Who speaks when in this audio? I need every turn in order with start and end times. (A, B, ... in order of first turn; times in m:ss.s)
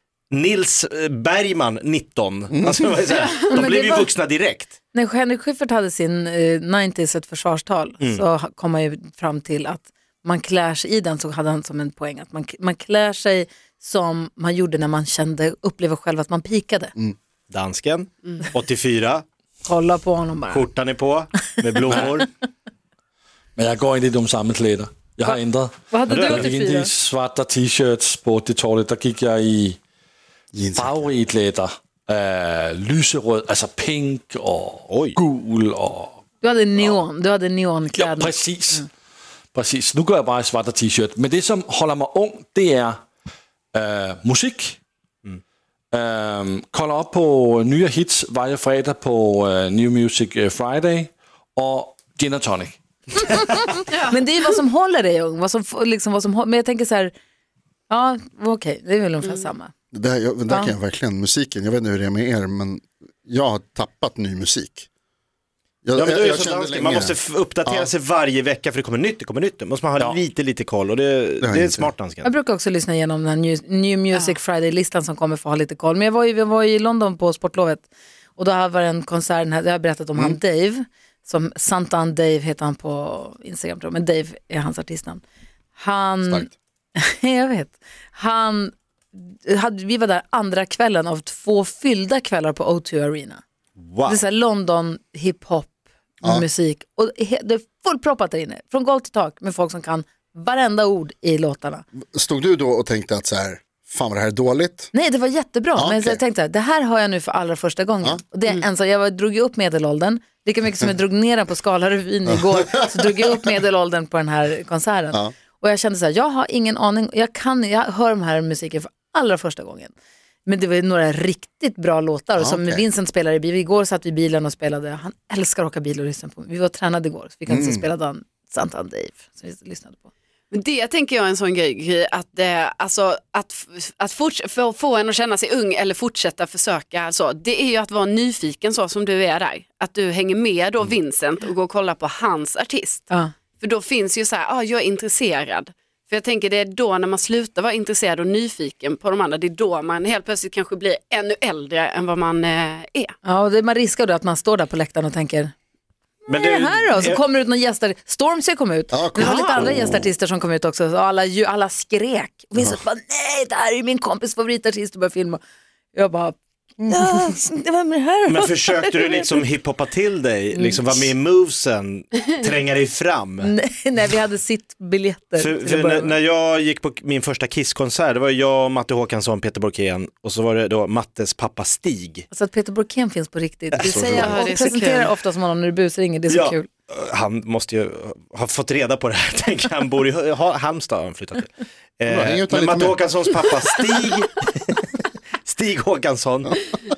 0:00.3-0:04.7 A
0:02.5-0:02.8 B
0:03.4-0:04.1 C
0:04.9-0:16.9 C
0:17.5-0:19.2 A
0:19.6-0:20.7 C
0:20.5-0:22.3 A
0:21.9-0:22.2 D
0:23.6-0:29.8 D
0:25.9-0:26.9 C
0:26.1-0:26.5 A
0:30.5-0:31.1 B
0:30.8-0:36.2 D
0:34.9-0:35.2 A
0:36.4-0:38.9 C
0:36.8-0:37.0 D
0:37.9-0:38.8 D
0:39.5-0:43.0 D
0:43.7-0:44.8 D
0:45.9-0:53.2 D
0:53.2-0:57.1 C
0:53.9-0:54.2 E
0:57.9-0:59.7 C
0:59.9-1:04.9 B
1:00.5-1:00.7 C
1:05.8-1:07.9 B
1:05.9-1:12.3 A
1:11.4-1:11.9 B
1:12.2-1:25.2 C
1:25.8-1:33.4 C
1:33.8-1:34.2 A
1:34.0-1:41.8 C
1:42.1-1:44.9 B
1:44.9-1:59.9 C
1:45.8-1:46.2 B
1:52.3-1:53.4 B
2:00.4-2:10.1 C
2:02.4-2:02.8 B
2:07.5-2:07.9 B
2:10.5-2:33.1 E
2:33.2-2:35.5 C
2:36.2-2:45.4 C
2:36.3-2:37.2 A
2:38.9-2:40.1 B
2:39.2-2:39.6 E
2:45.9-2:49.4 C
2:46.8-2:47.3 B
2:48.2-2:53.5 A
2:50.5-2:51.1 C
2:53.4-2:56.2 C
2:55.4-3:02.2 A
3:02.3-3:06.7 C
3:03.8-3:04.2 A
3:03.8-3:04.4 B
3:04.2-3:05.1 E
3:06.3-3:14.9 A
3:12.1-3:13.2 B
3:15.4-3:16.6 A